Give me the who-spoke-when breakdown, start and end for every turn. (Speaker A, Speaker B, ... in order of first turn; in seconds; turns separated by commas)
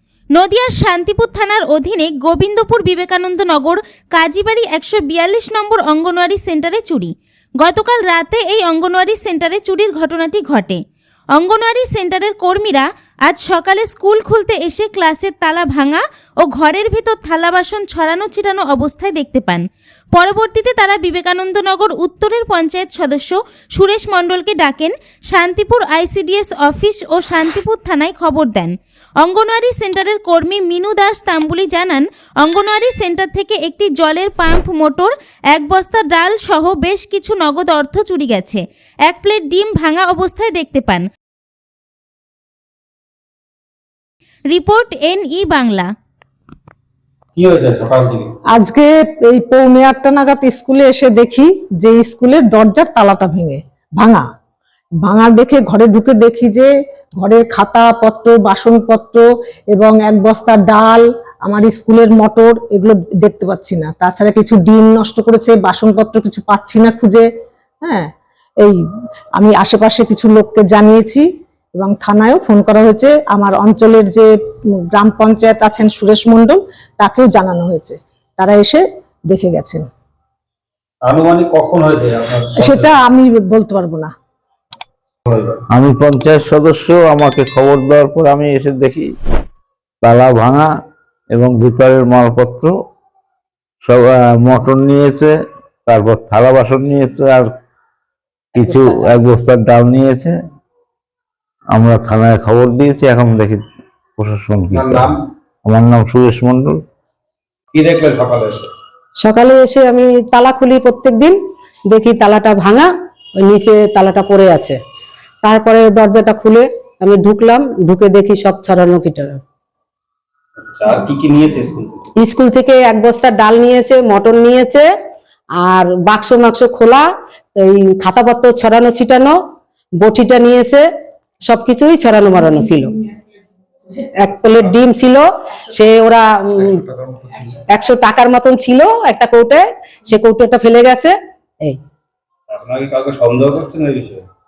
Speaker A: 0.3-10.8, Speaker A: 11.3-41.0, Speaker A: 44.5-45.9, Speaker B: 47.4-48.3, Speaker C: 48.5-54.2, Speaker C: 55.0-67.2, Speaker C: 67.8-68.1, Speaker C: 69.3-74.3, Speaker C: 74.9-79.8, Speaker B: 81.0-82.9, Speaker C: 82.6-84.1, Speaker B: 85.3-85.6, Speaker D: 85.7-89.1, Speaker D: 90.0-90.7, Speaker D: 91.3-92.7, Speaker D: 93.8-95.3, Speaker D: 95.8-97.5, Speaker D: 98.5-100.3, Speaker D: 101.7-103.6, Speaker D: 104.2-105.1, Speaker B: 104.7-105.2, Speaker D: 105.7-106.8, Speaker B: 107.7-108.7, Speaker E: 109.2-111.4, Speaker E: 111.9-114.8, Speaker E: 115.4-119.4, Speaker B: 120.7-122.1, Speaker E: 122.2-124.9, Speaker E: 125.6-129.4, Speaker E: 130.0-130.9, Speaker E: 131.4-132.9, Speaker E: 134.2-136.9, Speaker E: 137.7-141.8, Speaker B: 142.5-144.2